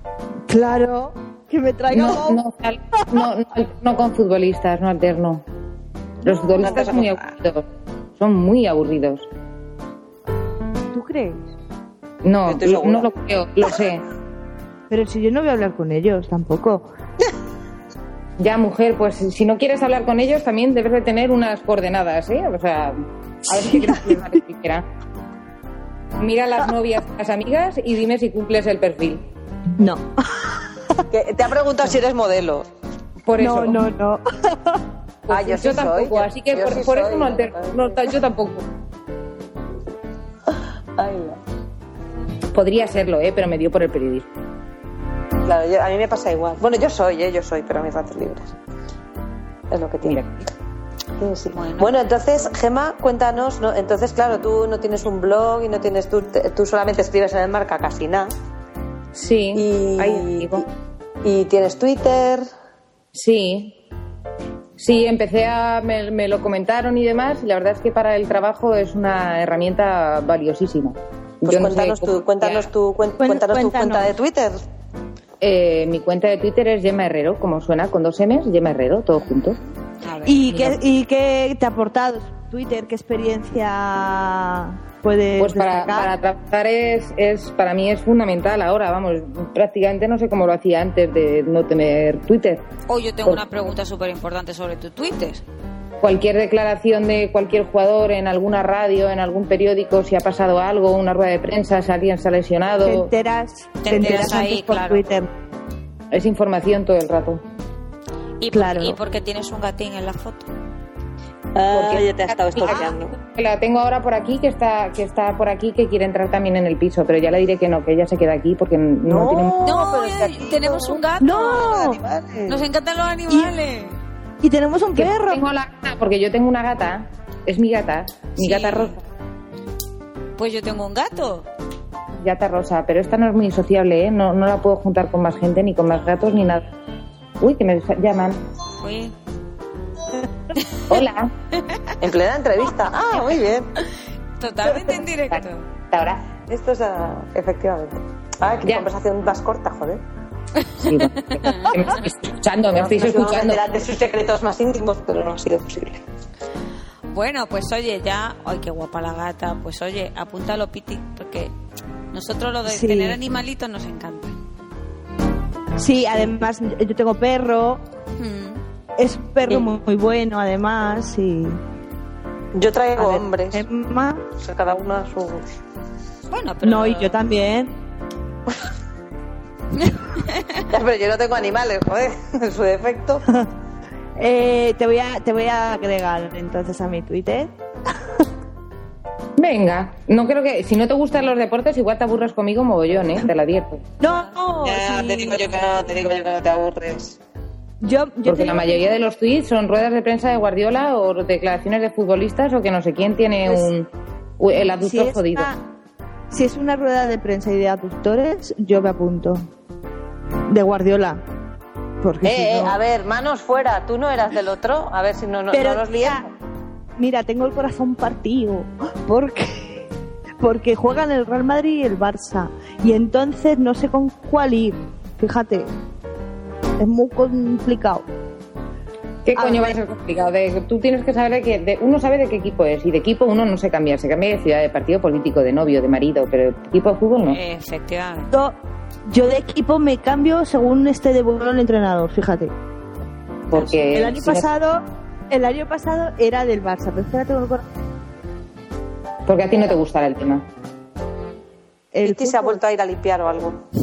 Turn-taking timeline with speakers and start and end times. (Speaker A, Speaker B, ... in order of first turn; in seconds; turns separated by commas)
Speaker A: 0.5-2.4, Speaker B: 1.9-5.4, Speaker B: 6.2-7.6, Speaker C: 6.6-7.2, Speaker B: 8.2-9.3, Speaker A: 10.9-11.5, Speaker B: 12.2-14.0, Speaker C: 12.4-13.1, Speaker A: 14.9-16.9, Speaker B: 18.4-24.8, Speaker B: 26.2-29.2, Speaker A: 29.8-31.0, Speaker C: 31.1-32.7, Speaker B: 33.2-33.9, Speaker A: 33.4-34.8, Speaker B: 35.3-38.6, Speaker C: 35.3-38.0, Speaker C: 41.0-41.4, Speaker B: 42.5-44.3, Speaker C: 45.4-48.5, Speaker C: 49.7-50.2, Speaker B: 50.0-50.3, Speaker C: 51.2-58.3, Speaker D: 51.5-51.9, Speaker B: 59.1-60.6, Speaker C: 59.5-60.6, Speaker C: 61.2-62.5, Speaker B: 63.1-63.8, Speaker B: 64.8-72.7, Speaker C: 71.4-74.6, Speaker A: 73.2-74.1, Speaker B: 75.4-79.6, Speaker D: 79.1-80.4, Speaker A: 80.2-86.1, Speaker B: 80.5-80.8, Speaker B: 85.4-92.6, Speaker D: 92.9-95.4, Speaker B: 96.0-103.1, Speaker A: 102.8-105.3, Speaker D: 103.8-105.1, Speaker B: 106.1-107.4, Speaker D: 108.4-110.5, Speaker A: 108.5-109.0, Speaker C: 111.5-113.1, Speaker B: 111.7-119.7, Speaker C: 119.0-122.6, Speaker D: 119.6-121.9, Speaker A: 121.2-122.0, Speaker D: 122.5-124.0, Speaker A: 124.4-125.4, Speaker B: 124.9-129.0, Speaker D: 128.3-128.9, Speaker D: 130.4-131.5, Speaker B: 132.2-136.7, Speaker B: 137.4-138.4, Speaker D: 138.8-139.2, Speaker B: 140.9-141.3, Speaker C: 142.0-143.7, Speaker D: 144.4-145.6, Speaker B: 144.7-146.2, Speaker C: 146.4-150.0, Speaker D: 150.6-152.1, Speaker B: 150.8-153.6, Speaker C: 152.7-156.0, Speaker D: 157.1-161.5, Speaker D: 162.1-164.3, Speaker A: 162.7-163.2, Speaker A: 165.8-167.8, Speaker D: 168.2-168.6, Speaker A: 169.0-171.6, Speaker C: 172.5-173.7, Speaker A: 173.0-174.2, Speaker C: 174.3-175.5, Speaker D: 176.3-177.2, Speaker A: 176.6-177.7, Speaker D: 179.8-180.6, Speaker C: 180.7-183.2, Speaker A: 184.2-188.2, Speaker B: 189.4-193.9, Speaker A: 194.0-195.4, Speaker C: 194.5-197.2, Speaker A: 197.8-198.9, Speaker B: 198.2-205.5, Speaker A: 204.7-205.6, Speaker A: 206.3-209.4, Speaker A: 210.5-211.2, Speaker A: 212.0-212.7, Speaker C: 212.2-216.3, Speaker A: 215.5-216.2, Speaker A: 217.0-219.9, Speaker A: 220.4-225.7, Speaker A: 226.8-228.1, Speaker B: 229.2-237.4, Speaker A: 229.4-229.7, Speaker D: 237.3-238.3, Speaker A: 239.1-242.5, Speaker B: 243.5-244.4, Speaker A: 243.9-247.7, Speaker B: 249.2-250.4, Speaker A: 251.9-252.6, Speaker C: 252.0-253.6